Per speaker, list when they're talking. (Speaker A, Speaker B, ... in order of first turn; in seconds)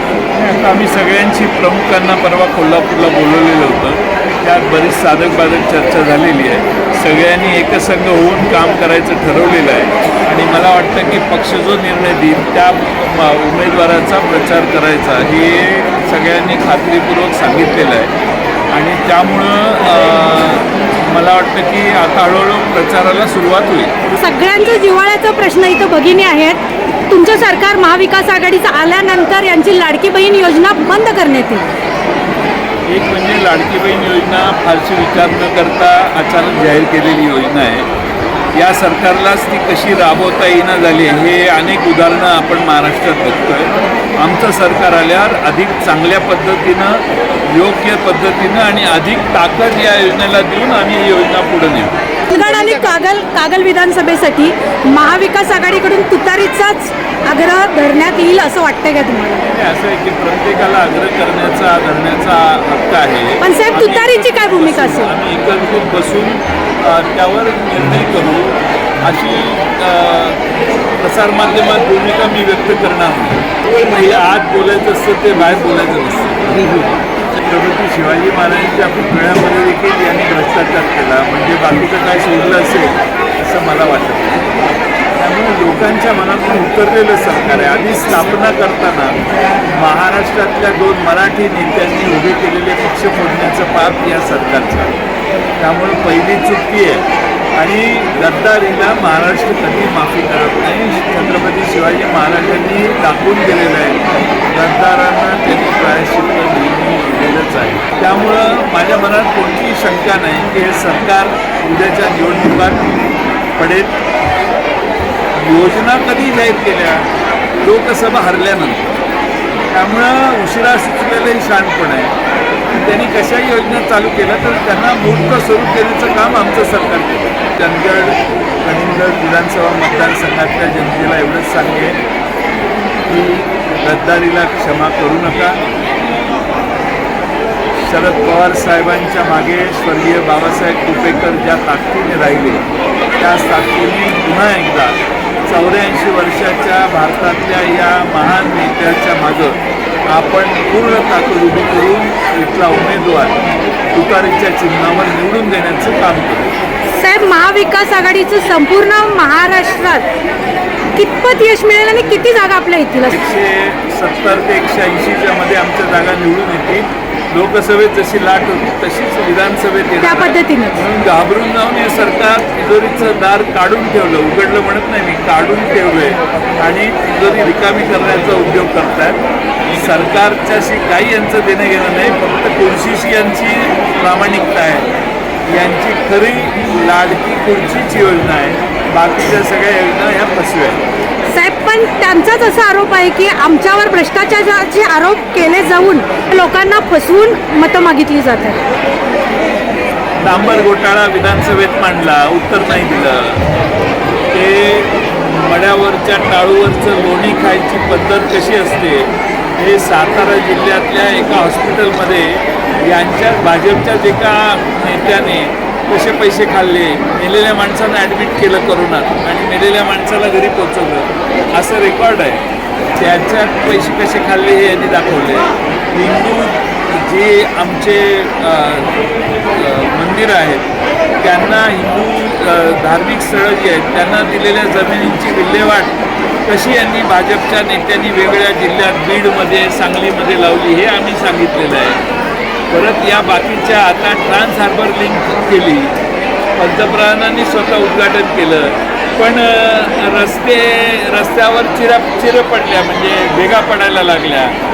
Speaker A: 0.3-18.1, 18.7-23.9, 32.9-37.9, 38.5-51.9, 59.4-70.4, 71.0-84.5, 85.2-89.2, 89.7-95.0, 95.6-112.8, 113.6-114.0, 115.3-117.1, 117.6-118.9, 119.7-122.2, 122.7-132.0, 133.6-135.6, 137.8-142.7, 143.2-153.4, 153.9-156.5, 163.1-184.9, 185.5-190.8, 200.2-203.4, 204.3-222.4, 223.0-228.9, 229.5-230.7, 231.2-242.0, 242.7-245.9, 246.6-254.6
Speaker B: 24.1-31.7, 52.3-59.4, 63.4-65.2, 156.9-160.1, 160.9-163.2, 170.0-170.8, 191.3-198.6